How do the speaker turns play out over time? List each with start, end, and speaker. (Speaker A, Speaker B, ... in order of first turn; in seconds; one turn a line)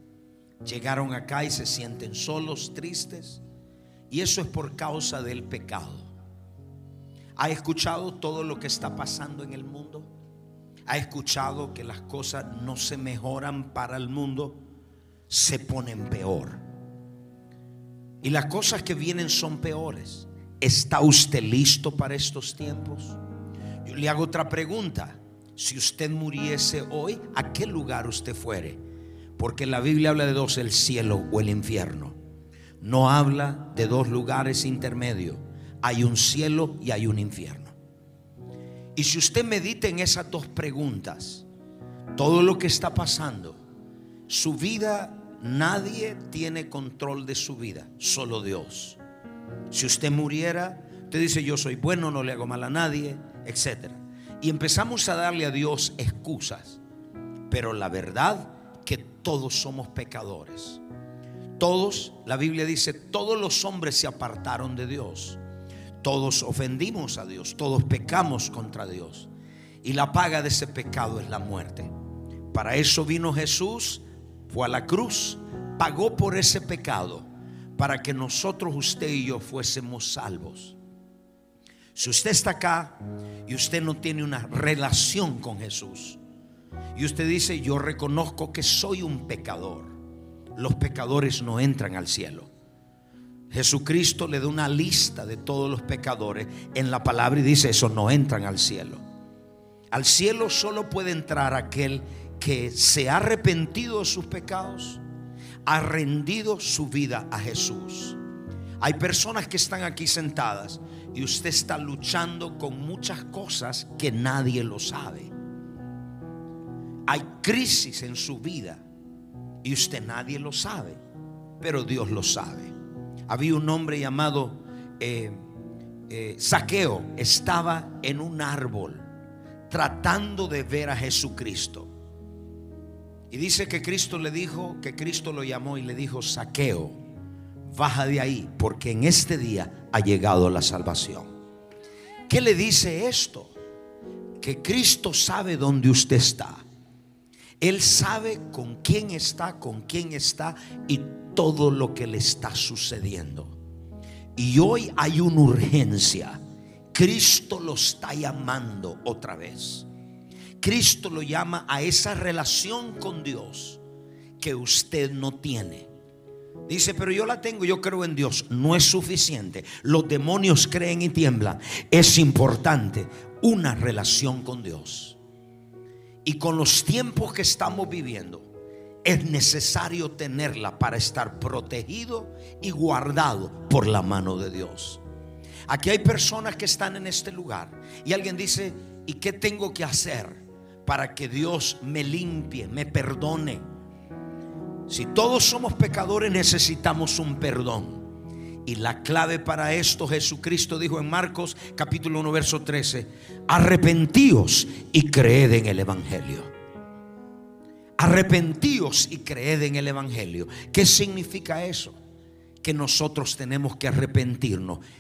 Speaker A: 0.6-3.4
Speaker A: 4.1-6.1
Speaker A: 7.4-10.1
Speaker A: 10.9-14.6
Speaker A: 15.3-16.6
Speaker A: 18.2-23.2
Speaker A: 23.8-28.8
Speaker A: 29.4-32.2
Speaker A: 32.8-37.7
Speaker A: 38.9-41.5
Speaker A: 42.1-43.6
Speaker A: 44.3-49.0
Speaker A: 49.7-56.8
Speaker A: 57.5-60.8
Speaker A: 61.6-65.4
Speaker A: 66.0-69.3
Speaker A: 69.8-71.9
Speaker A: 72.5-80.8
Speaker A: 82.0-86.2
Speaker A: 86.9-89.9
Speaker A: 90.5-92.5
Speaker A: 93.5-99.0
Speaker A: 99.9-105.0
Speaker A: 105.6-108.2
Speaker A: 108.8-115.3
Speaker A: 117.0-118.8
Speaker A: 119.6-121.0
Speaker A: 121.6-122.7
Speaker A: 123.3-125.4
Speaker A: 126.1-129.0
Speaker A: 129.7-131.9
Speaker A: 133.3-137.0
Speaker A: 137.7-141.3
Speaker A: 142.3-143.5
Speaker A: 144.4-146.6
Speaker A: 147.6-153.5
Speaker A: 154.3-156.4
Speaker A: 156.9-159.9
Speaker A: 160.6-163.8
Speaker A: 164.4-165.9
Speaker A: 166.7-175.2
Speaker A: 176.2-178.5
Speaker A: 179.0-185.0
Speaker A: 185.7-193.6
Speaker A: 194.9-198.1
Speaker A: 198.6-206.5
Speaker A: 208.0-212.0
Speaker A: 212.6-214.8